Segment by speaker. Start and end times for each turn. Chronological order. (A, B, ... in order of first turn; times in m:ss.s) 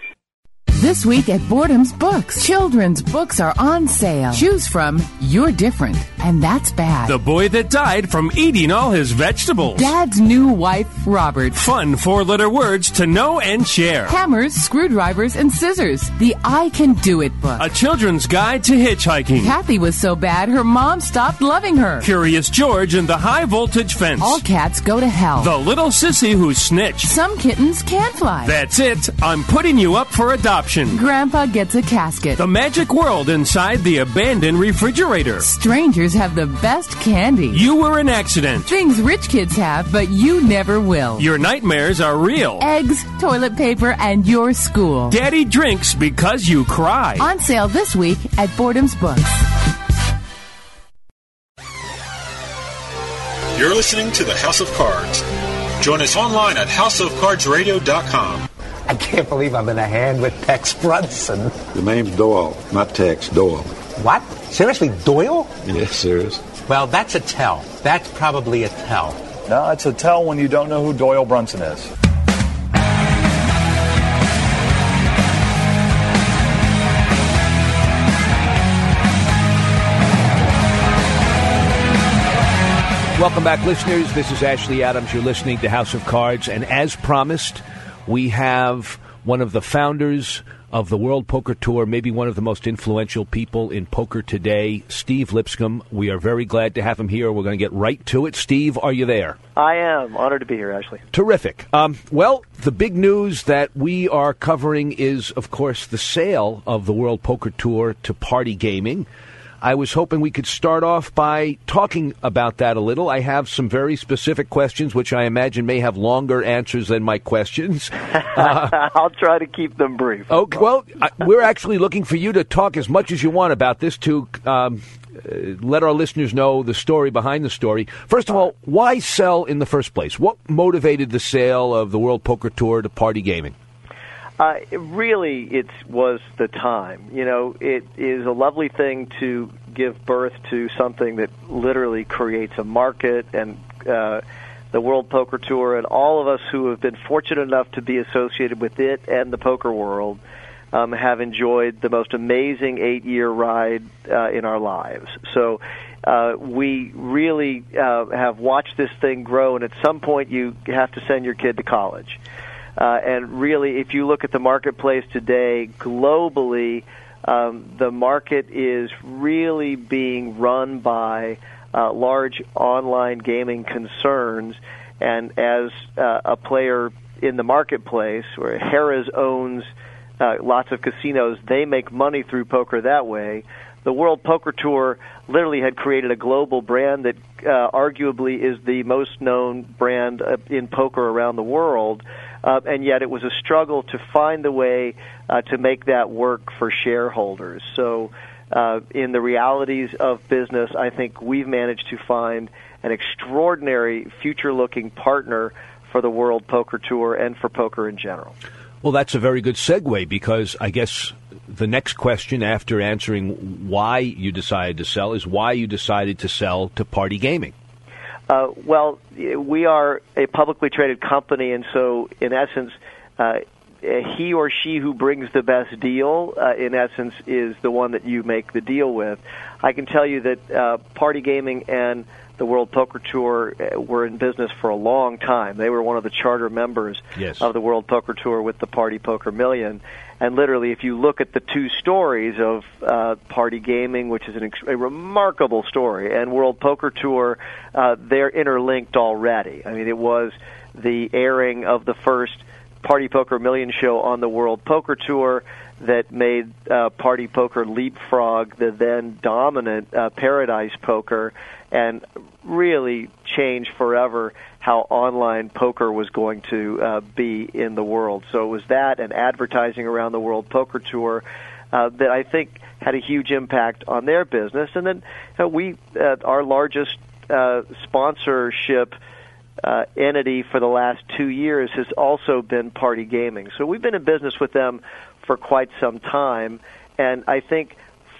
0:00.7-0:07.1 A
0:07.0-0:09.9 B
0:09.8-0:11.6 A
0:11.5-0:14.2 B
0:14.1-0:17.6 A
0:17.6-0:19.6 B
0:19.4-0:22.1 A
0:22.0-0:24.4 B
0:24.2-0:25.5 A
0:25.4-0:27.1 B
0:27.0-0:28.6 A
0:28.4-0:31.0 B
0:30.9-0:32.4 A
0:32.4-0:35.5 B
0:35.4-0:37.6 A
0:37.5-0:38.7 B
0:38.7-0:41.3 A
0:41.2-0:42.7 B
0:42.6-0:45.2 A
0:45.1-0:47.3 B
0:47.2-0:49.5 A
0:53.6-0:54.6 C
0:55.8-0:56.1 C
0:57.1-0:57.7 C
0:58.9-1:01.6 D
1:01.7-1:03.8 E
1:04.0-1:05.5 D
1:05.6-1:06.4 E
1:06.6-1:09.2 D
1:09.5-1:11.9 F
1:23.2-1:39.4 G
1:39.6-1:41.0 H
1:41.1-1:49.1 G
1:49.6-1:58.8 G
1:58.3-2:00.6 H
2:00.3-2:13.6 G
2:14.4-2:30.2 H
2:30.7-2:42.2 H
2:42.8-3:28.4 H
3:28.8-3:37.5 G
3:38.3-4:39.0 H
3:57.2-3:57.5 G
4:39.6-4:47.8 H